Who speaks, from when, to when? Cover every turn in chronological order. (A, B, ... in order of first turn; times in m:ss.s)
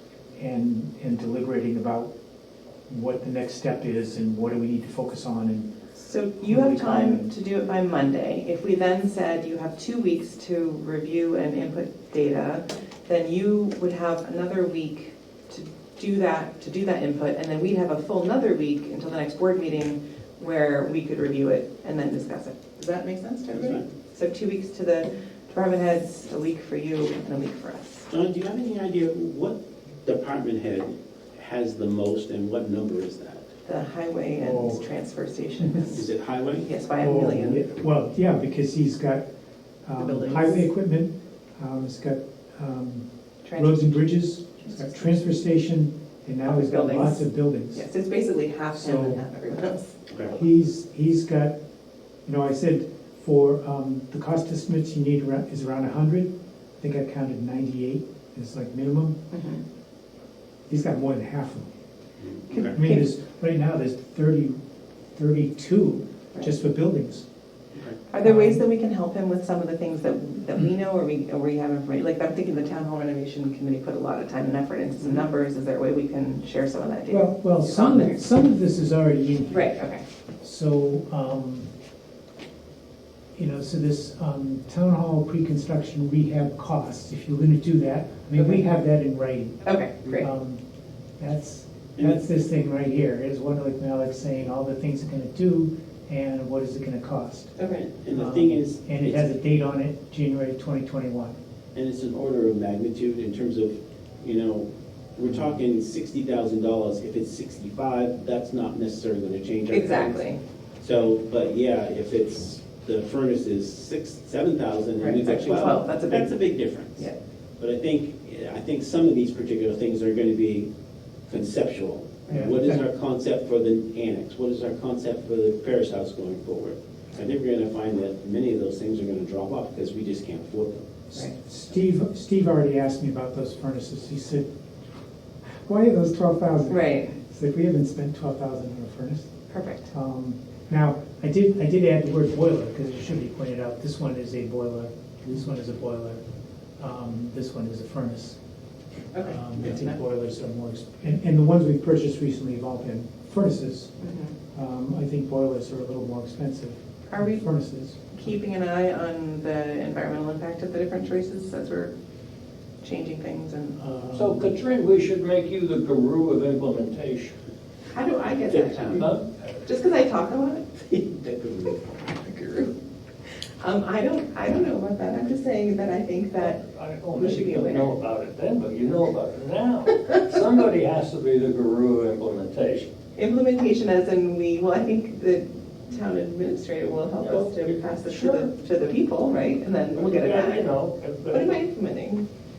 0:00.4-0:02.1 A
0:02.9-0:05.7 A
0:06.0-0:28.1 B
0:06.4-0:07.3 A
0:23.5-0:23.9 C
0:28.1-0:33.5 C
0:33.6-0:36.0 B
0:34.4-0:34.8 A
0:35.9-0:36.7 C
0:36.6-0:37.7 B
0:37.0-0:39.3 A
0:39.8-0:47.9 A
0:40.0-0:40.7 B
0:43.4-0:44.0 B
0:44.6-0:45.1 B
0:46.5-0:50.0 B
0:48.8-0:49.2 A
0:50.1-0:50.4 C
0:50.3-0:51.6 A
0:52.2-0:59.2 A
0:59.3-0:59.6 B
1:00.7-1:01.7 A
1:02.2-1:02.8 C
1:02.6-1:03.0 B
1:02.6-1:04.6 A
1:05.1-1:07.2 A
1:08.1-1:18.2 B
1:08.2-1:08.6 A
1:17.1-1:19.7 A
1:19.5-1:20.0 B
1:20.4-1:21.7 A
1:23.4-1:30.6 A
1:28.4-1:28.6 B
1:29.6-1:30.2 B
1:31.2-1:37.5 A
1:32.0-1:32.3 C
1:37.6-1:37.8 B
1:37.8-1:39.3 C
1:38.1-1:41.4 A
1:41.8-1:50.3 C
1:49.7-1:50.4 B
1:50.8-2:00.7 C
1:55.0-1:56.4 B
2:01.3-2:11.0 C
2:02.3-2:02.8 A
2:11.1-2:14.5 A
2:15.6-2:19.3 A
2:16.7-2:17.1 B
2:19.5-2:19.9 B
2:19.9-2:26.2 A
2:26.8-2:28.4 A
2:29.1-2:29.9 B
2:29.2-2:34.0 A
2:34.0-2:34.3 B
2:34.5-2:38.0 A
2:37.1-2:37.5 B
2:38.1-2:41.9 B
2:42.8-2:43.8 B
2:43.8-2:44.6 A
2:44.1-2:47.4 D
2:47.9-2:49.1 B
2:48.5-2:49.1 C
2:49.0-2:49.2 D
2:49.6-2:51.0 B
2:51.0-2:51.9 C
2:52.1-2:52.8 B
2:53.6-2:56.6 B
2:56.4-3:02.9 D
2:57.2-2:58.0 B
3:03.2-3:10.7 B
3:07.2-3:08.5 D
3:09.9-3:11.6 D
3:11.3-3:12.2 B